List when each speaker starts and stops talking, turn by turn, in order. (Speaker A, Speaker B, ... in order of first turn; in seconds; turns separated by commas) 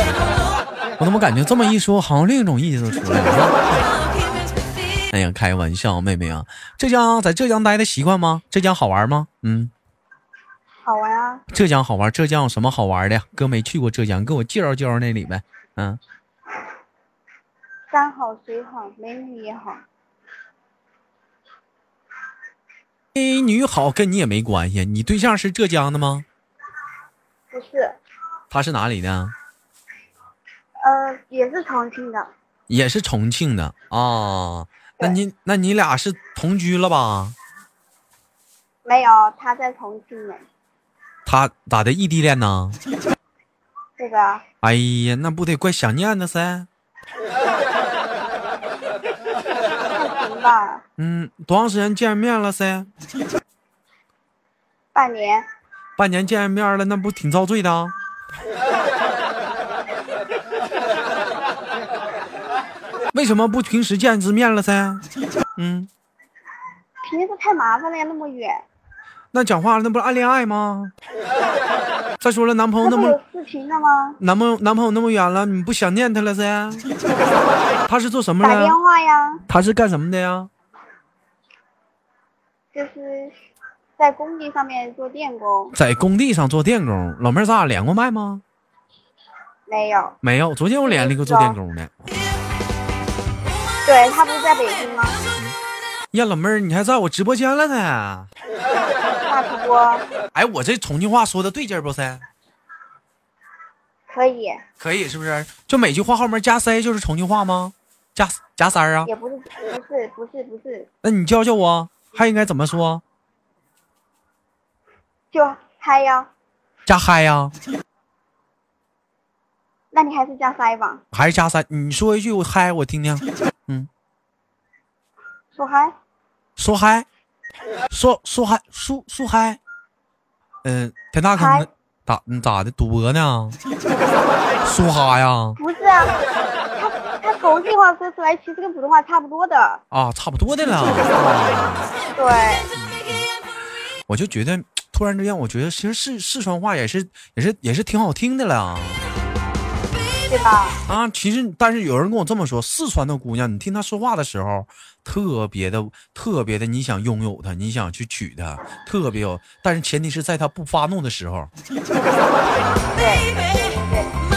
Speaker A: 1.0-3.9, Speaker A: 5.1-9.7, Speaker B: 10.8-11.4, Speaker A: 11.5-16.0, Speaker B: 17.9-19.8, Speaker A: 23.1-26.2, Speaker B: 27.5-28.0, Speaker A: 28.5-29.3, Speaker B: 30.8-32.3, Speaker A: 32.7-37.4, Speaker B: 38.8-40.4, Speaker A: 41.2-42.8, Speaker B: 44.0-44.4, Speaker A: 44.6-46.7, Speaker B: 49.9-50.8, Speaker A: 51.0-52.9, Speaker B: 54.9-55.5, Speaker A: 56.0-57.9, Speaker A: 63.1-65.0, Speaker A: 65.6-65.9, Speaker B: 67.0-68.6, Speaker A: 69.3-70.9, Speaker A: 72.2-73.2, Speaker B: 72.8-74.2, Speaker A: 74.2-76.8, Speaker A: 77.9-78.8, Speaker B: 78.4-79.4, Speaker A: 79.5-80.5, Speaker B: 82.7-83.3, Speaker B: 84.0-85.8, Speaker A: 85.7-88.4, Speaker B: 89.7-90.2, Speaker A: 90.2-92.1, Speaker B: 90.8-91.6, Speaker B: 93.8-95.2, Speaker A: 96.1-98.3, Speaker B: 99.2-100.0, Speaker A: 100.3-102.2, Speaker B: 104.1-104.6, Speaker A: 104.8-109.1, Speaker B: 109.0-110.9, Speaker A: 111.0-113.0, Speaker B: 115.3-116.3, Speaker A: 116.9-117.5, Speaker B: 119.9-121.0, Speaker A: 121.1-123.9, Speaker B: 125.5-125.9, Speaker A: 126.6-127.0, Speaker A: 127.9-129.6, Speaker A: 130.6-133.6, Speaker B: 131.3-131.7, Speaker A: 134.6-135.6, Speaker B: 135.6-136.2, Speaker B: 136.7-139.8, Speaker A: 139.9-141.9, Speaker B: 142.2-142.7, Speaker A: 142.7-143.3, Speaker A: 144.1-149.0, Speaker B: 150.3-150.8, Speaker A: 150.9-161.5, Speaker B: 162.9-164.1